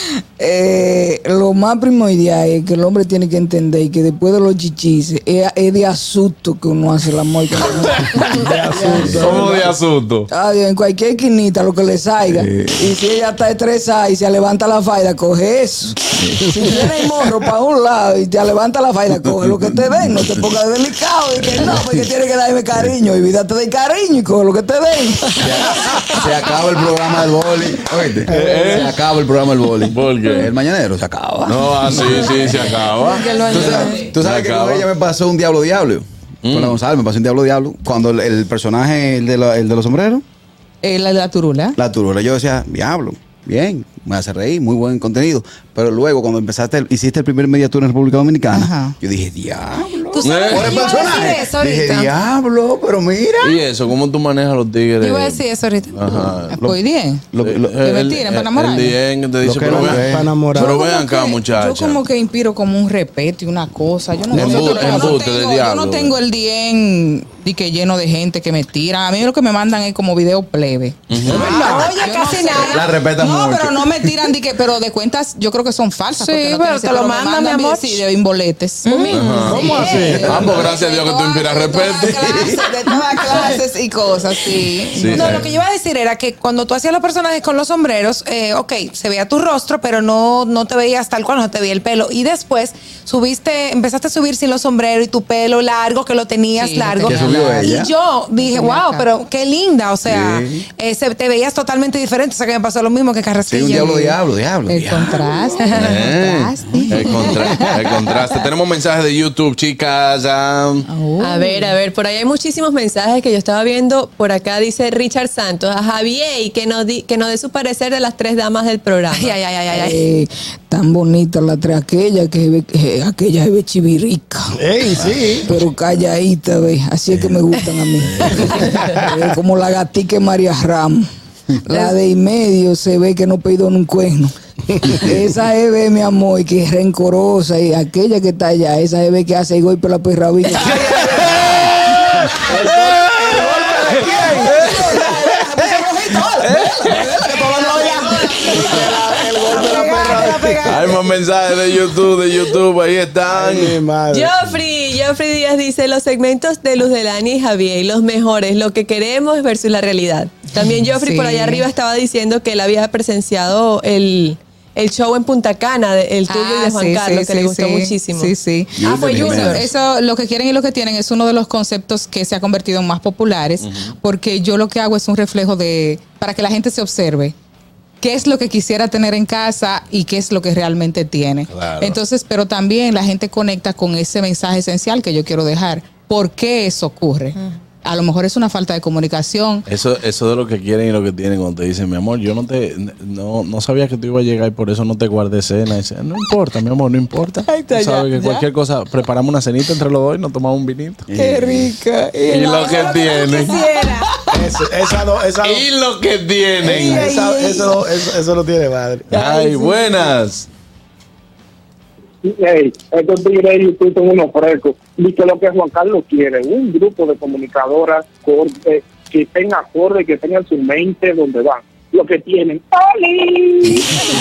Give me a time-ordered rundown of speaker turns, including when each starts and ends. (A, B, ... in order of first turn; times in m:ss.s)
0:00.4-0:09.6 A
0:07.6-0:10.3 B
0:08.3-0:09.7 C
0:10.3-0:26.2 A
0:12.3-0:12.8 D
0:19.3-0:20.4 D
0:25.4-0:32.8 D
0:28.3-0:28.9 B
0:28.4-0:28.7 C
0:29.9-0:30.5 B
0:31.4-0:34.8 B
0:33.1-0:34.0 E
0:33.4-0:33.8 F
0:33.5-0:40.2 D
0:36.4-0:36.8 B
0:40.8-0:41.8 F
0:41.8-0:53.6 D
0:48.5-0:49.0 F
0:50.1-0:52.1 E
0:50.2-0:50.8 B
0:50.7-0:51.3 G
0:53.4-0:56.6 B
0:55.0-0:56.4 E
0:56.5-0:59.0 F
0:56.5-0:56.8 D
0:57.3-0:57.8 D
0:57.4-1:02.0 B
0:59.4-1:00.3 D
0:59.6-1:00.8 C
1:00.5-1:25.4 F
1:04.3-1:06.2 B
1:04.4-1:05.2 C
1:11.1-1:11.9 B
1:11.2-1:12.8 E
1:12.5-1:14.3 D
1:16.1-1:18.0 E
1:18.8-1:20.4 E
1:19.1-1:22.6 B
1:19.4-1:20.5 C
1:20.1-1:20.5 D
1:23.1-1:23.6 E
1:24.9-1:25.5 B
1:25.1-1:44.2 E
1:36.6-1:37.2 F
1:37.0-1:37.9 D
1:38.4-1:39.1 F
1:40.0-1:40.6 D
1:43.4-1:45.3 D
1:44.7-1:47.6 F
1:45.6-1:45.9 E
1:45.7-1:50.8 B
1:50.9-1:51.7 F
1:51.2-1:59.4 G
1:59.1-2:00.0 E
1:59.7-2:04.6 A
2:04.6-2:05.5 C
2:05.4-2:11.1 A
2:11.6-2:21.0 A
2:20.7-2:21.4 C
2:20.9-2:21.4 B
2:22.3-2:24.9 C
2:22.7-2:25.3 B
2:24.2-2:24.7 A
2:25.7-2:26.2 F
2:26.4-2:27.2 B
2:26.8-2:28.6 F
2:27.1-2:30.8 C
2:27.7-2:28.6 E
2:29.4-2:31.0 E
2:29.5-2:29.8 A
2:30.6-2:33.8 B
2:33.3-2:34.3 C
2:34.1-2:48.3 G
2:40.8-2:41.6 F
2:46.3-2:57.3 F
2:48.8-2:49.7 D
2:48.9-2:49.6 G
2:53.6-2:53.9 B
2:58.0-3:09.6 F
3:01.5-3:02.0 B
3:09.7-3:21.0 B
3:17.4-3:18.4 A
3:21.1-3:21.8 D
3:21.1-3:24.5 A
3:22.3-3:23.6 B
3:22.6-3:24.0 E
3:24.3-3:25.6 C
3:25.4-3:27.1 B
3:26.6-3:27.9 A
3:26.6-3:29.1 C
3:29.1-3:30.5 B
3:29.1-3:29.8 A
3:32.2-3:44.0 H